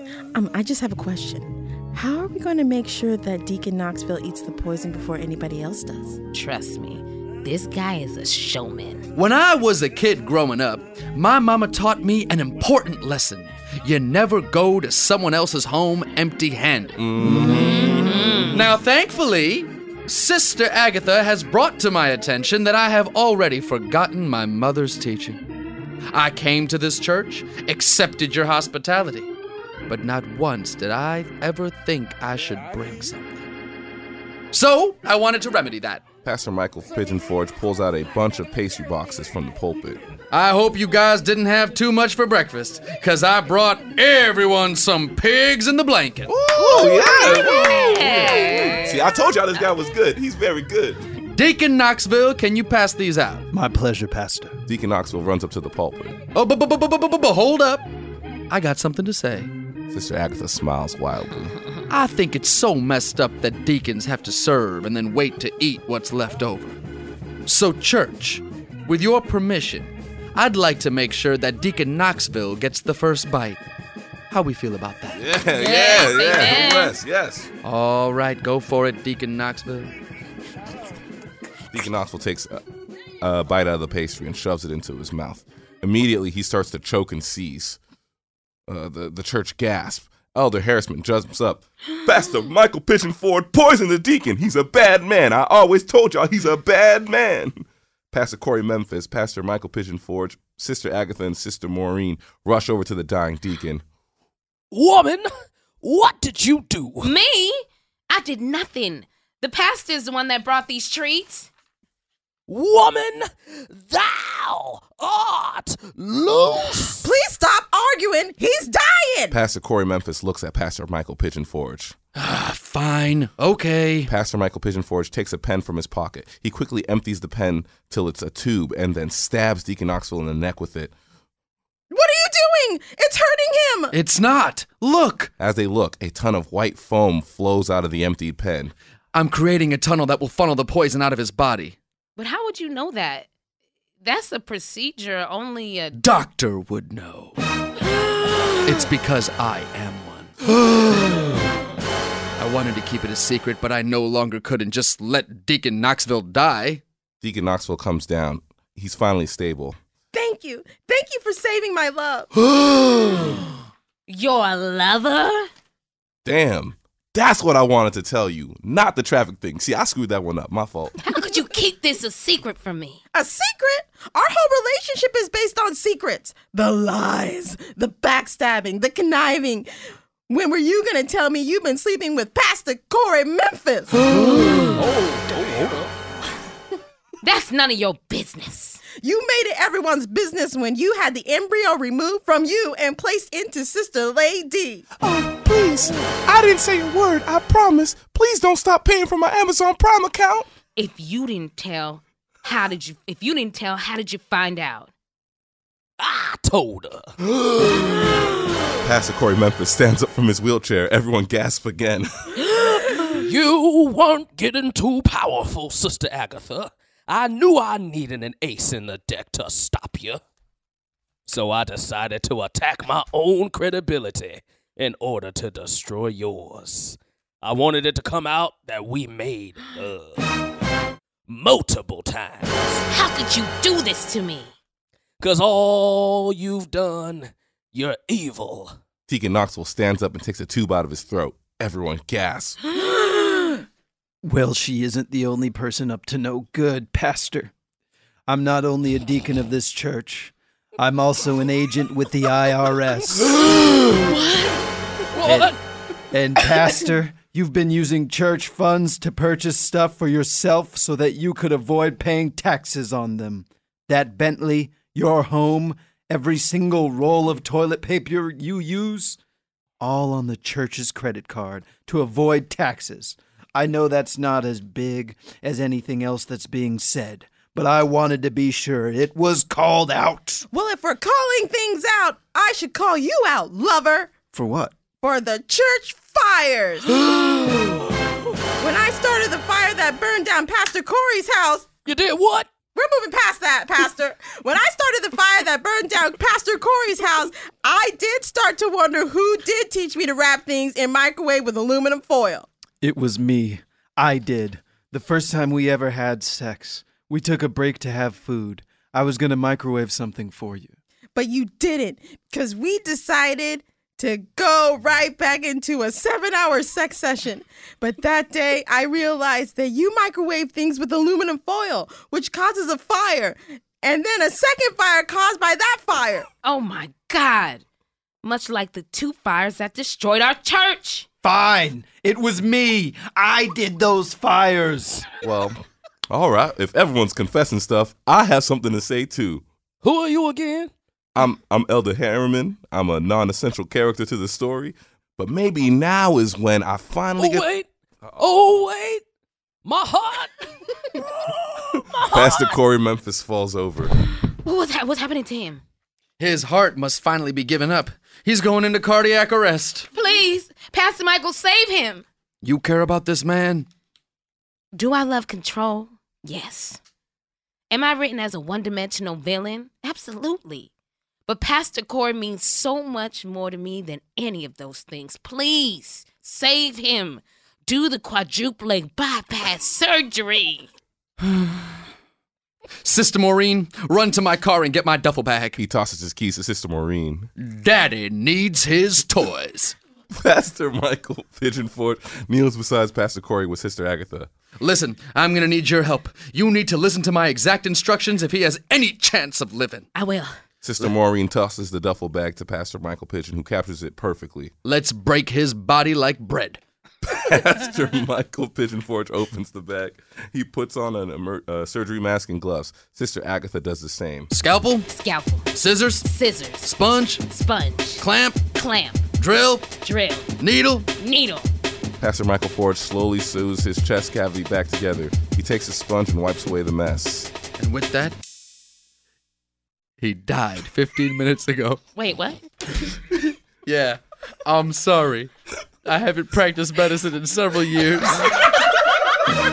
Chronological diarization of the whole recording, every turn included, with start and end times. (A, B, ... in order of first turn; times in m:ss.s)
0:00.3-0:06.2 A
0:06.3-0:09.0 B
0:09.1-0:25.4 C
0:17.0-0:18.7 D
0:17.5-0:18.6 B
0:26.1-0:29.3 C
0:29.9-0:33.5 C
0:34.5-0:36.1 C
0:36.2-0:40.0 D
0:40.3-0:46.3 C
0:46.3-0:51.0 D
0:46.5-0:49.1 B
0:51.3-0:53.4 C
0:53.5-0:54.6 E
0:54.7-0:56.2 D
0:56.3-0:57.9 C
0:58.5-0:59.5 C
0:59.9-1:01.5 D
1:01.9-1:06.7 C
1:07.4-1:13.6 C
1:14.3-1:15.2 C
1:15.1-1:17.5 D
1:15.5-1:17.0 B
1:17.6-1:19.9 C
1:21.7-1:22.6 D
1:23.2-1:27.8 D
1:28.7-1:43.8 D
1:44.7-1:45.3 F
1:45.8-1:47.1 F
1:47.0-1:51.5 B
1:52.5-1:57.1 F
1:57.0-1:59.4 A
1:59.3-2:02.0 D
2:02.1-2:04.1 C
2:04.1-2:10.9 D
2:11.9-2:13.9 A
2:13.9-2:15.3 C
2:15.4-2:18.7 D
2:19.1-2:21.8 C
2:22.2-2:23.3 B
2:24.0-2:26.0 B
2:25.9-2:27.4 C
2:28.5-2:31.5 C
2:32.4-2:36.8 C
2:37.2-2:39.8 D
2:40.1-2:42.3 A
2:42.3-2:43.4 C
2:44.1-2:45.5 B
2:46.2-2:50.9 D
2:51.0-2:53.0 B
2:53.1-2:59.7 A
3:00.3-3:04.0 A
3:04.2-3:04.8 C
3:04.8-3:05.9 F
3:07.2-3:08.8 B
3:09.0-3:14.9 A
3:15.0-3:20.5 D
3:20.8-3:24.9 B
3:26.0-3:27.1 F
3:28.8-3:32.5 D
3:33.2-3:40.2 F
3:41.3-3:50.3 F
3:51.3-3:52.8 F
3:52.9-3:54.5 B
3:55.2-3:58.8 F
3:59.1-4:02.6 D
4:04.2-4:07.5 E
4:08.3-4:13.5 E
4:14.1-4:14.5 B
4:15.1-4:15.6 F
4:15.2-4:15.5 E
4:16.1-4:29.2 E
4:29.8-4:40.4 E
4:40.5-4:44.2 A
4:44.3-4:44.8 E
4:45.0-4:47.0 A
4:48.6-4:51.7 A
4:51.8-4:52.5 F
4:52.7-5:02.5 A
5:02.8-5:10.8 E
5:11.1-5:26.3 A
5:26.4-5:27.6 B
5:28.2-5:31.1 B
5:31.2-5:35.1 E
5:35.2-5:39.4 D
5:39.8-5:40.7 F
5:41.1-5:47.5 D
5:47.2-5:47.6 F
5:48.2-5:49.0 F
5:49.6-5:52.3 F
5:52.1-5:53.9 D
5:54.4-5:55.6 B
5:56.2-5:59.9 C
5:59.9-6:02.0 B
6:02.4-6:03.7 C
6:04.7-6:06.8 B
6:07.7-6:10.7 B
6:11.3-6:20.7 B
6:22.8-6:25.6 C
6:25.6-6:27.3 D
6:27.4-6:29.7 C
6:30.1-6:34.3 D
6:34.6-6:39.9 C
6:39.9-6:40.4 B
6:40.6-6:44.5 D
6:44.6-6:46.6 C
6:47.0-6:54.3 D
6:54.3-6:54.9 C
6:54.9-6:56.7 B
6:55.5-6:56.0 C
6:56.6-6:57.2 C
6:57.2-6:59.1 B
6:58.0-6:58.4 C
6:59.2-6:59.7 C
6:59.8-7:00.3 B
7:00.4-7:00.9 C
7:00.9-7:01.5 B
7:02.0-7:07.3 D
7:07.6-7:08.2 C
7:10.0-7:11.8 C
7:11.9-7:12.4 B
7:13.6-7:15.3 C
7:15.8-7:18.4 C